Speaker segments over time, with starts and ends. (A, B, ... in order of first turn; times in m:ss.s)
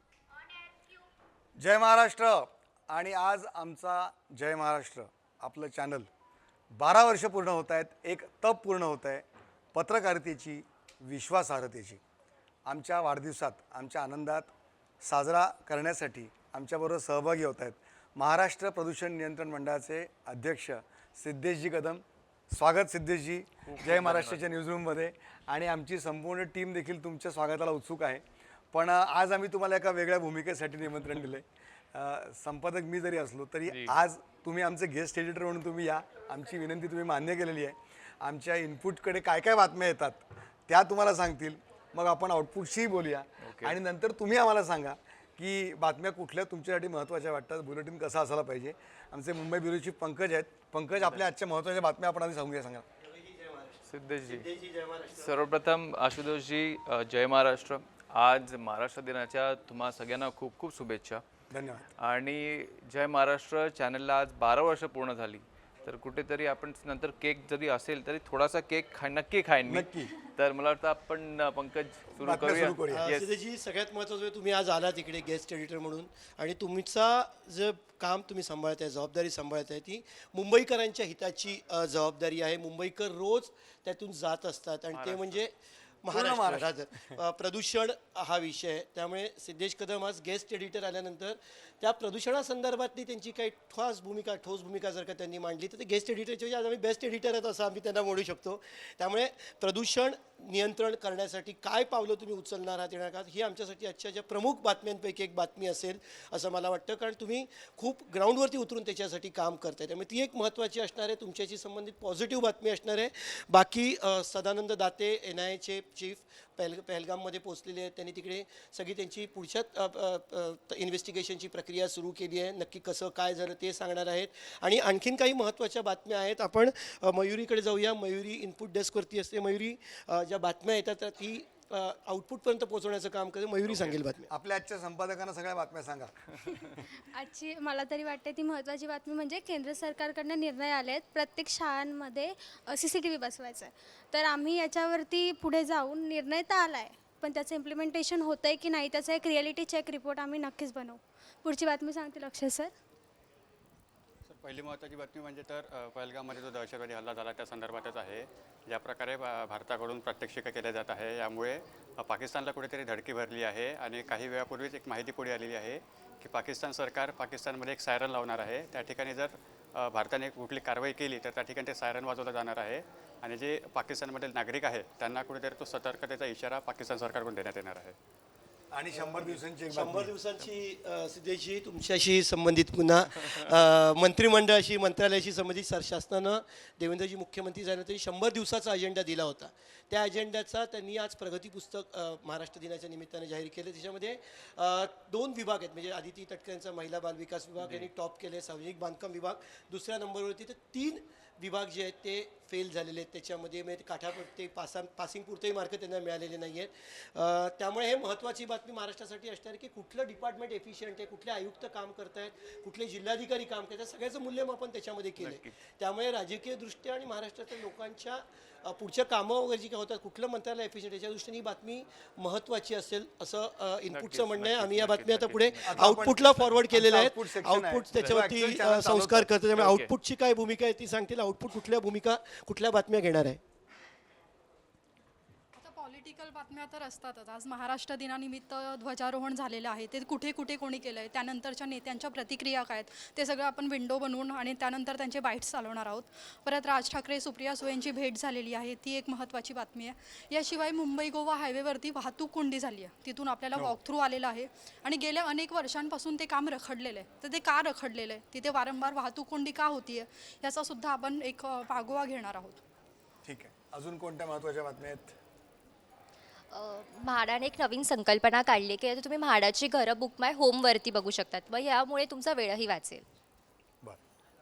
0:01.6-0:06.1 A
0:06.8-0:12.0 A
0:12.7-0:52.8 A
0:23.7-0:24.4 B
0:33.7-0:34.0 B
0:43.4-0:43.8 B
0:51.0-0:51.2 B
0:53.2-0:53.7 C
0:53.8-0:54.5 B
0:54.3-0:55.2 C
0:55.1-1:01.2 B
1:01.5-1:01.9 A
1:02.0-1:13.3 B
1:09.7-1:10.1 A
1:12.2-1:13.2 A
1:12.9-1:25.5 C
1:24.9-1:25.4 B
1:26.0-2:14.3 C
1:26.1-1:27.2 A
2:13.7-2:13.9 B
2:14.3-2:16.3 A
2:16.9-2:32.7 D
2:34.3-2:58.0 E
2:58.7-3:00.1 A
2:58.9-3:53.4 C
3:17.6-3:17.9 B
3:35.2-3:35.5 B
3:43.9-3:46.5 B
3:45.6-3:49.3 A
3:49.5-3:49.9 B
3:55.6-4:22.6 F
4:23.2-4:25.2 A
4:26.5-4:33.0 G